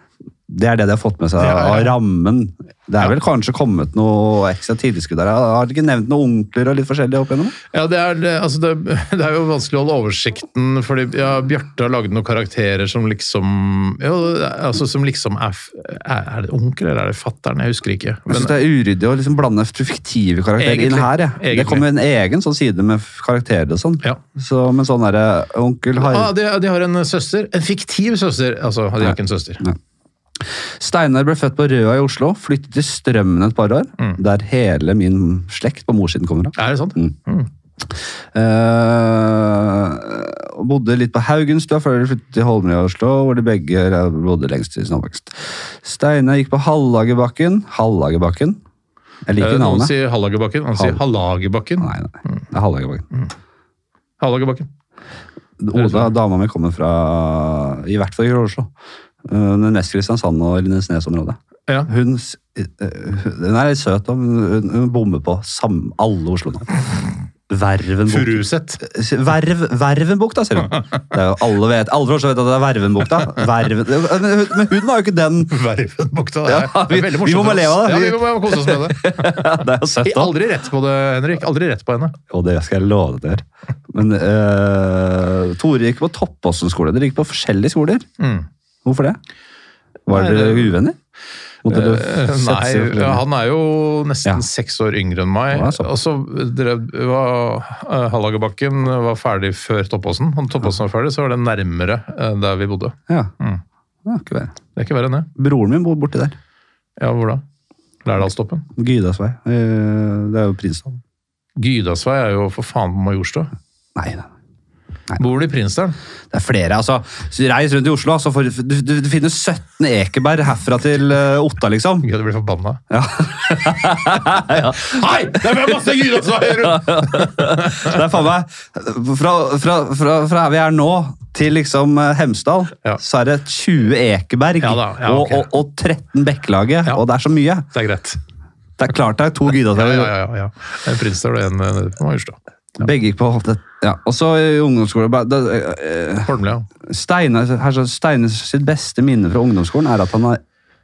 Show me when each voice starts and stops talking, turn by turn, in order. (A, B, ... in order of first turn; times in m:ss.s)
0:00.5-0:07.6 A
0:01.4-0:02.0 B
0:07.7-0:18.6 B
0:18.3-0:26.3 A
0:20.6-0:21.9 B
0:26.0-0:29.6 B
0:30.4-0:37.2 A
0:36.6-0:37.5 B
0:38.3-0:48.6 A
0:49.3-0:49.9 A
0:49.4-0:52.4 B
0:50.8-0:51.0 A
0:51.8-0:53.1 A
0:54.2-0:54.7 B
0:55.6-0:58.7 A
0:55.8-0:56.1 B
0:59.3-1:06.7 A
1:07.5-1:15.6 A
1:08.1-1:08.8 B
1:15.5-1:22.2 B
1:16.5-1:20.3 A
1:22.3-1:28.1 A
1:28.2-1:28.5 B
1:28.8-1:29.2 A
1:30.1-1:31.0 A
1:30.1-1:30.8 B
1:31.6-1:33.2 A
1:31.7-1:43.6 B
1:35.5-1:35.9 A
1:44.0-1:44.5 A
1:44.8-1:45.3 B
1:45.4-1:46.4 A
1:47.0-1:47.4 B
1:48.0-1:48.7 B
1:48.8-1:51.0 A
1:51.6-1:53.5 B
1:54.0-1:54.3 A
1:55.2-1:56.0 B
1:56.3-2:02.1 A
2:02.0-2:02.8 B
2:02.9-2:05.0 A
2:03.6-2:08.1 B
2:06.6-2:17.7 A
2:14.6-2:15.5 B
2:17.7-2:18.2 B
2:18.8-2:20.1 A
2:19.7-2:22.4 B
2:22.8-2:26.3 A
2:26.3-2:26.7 B
2:26.8-2:30.4 A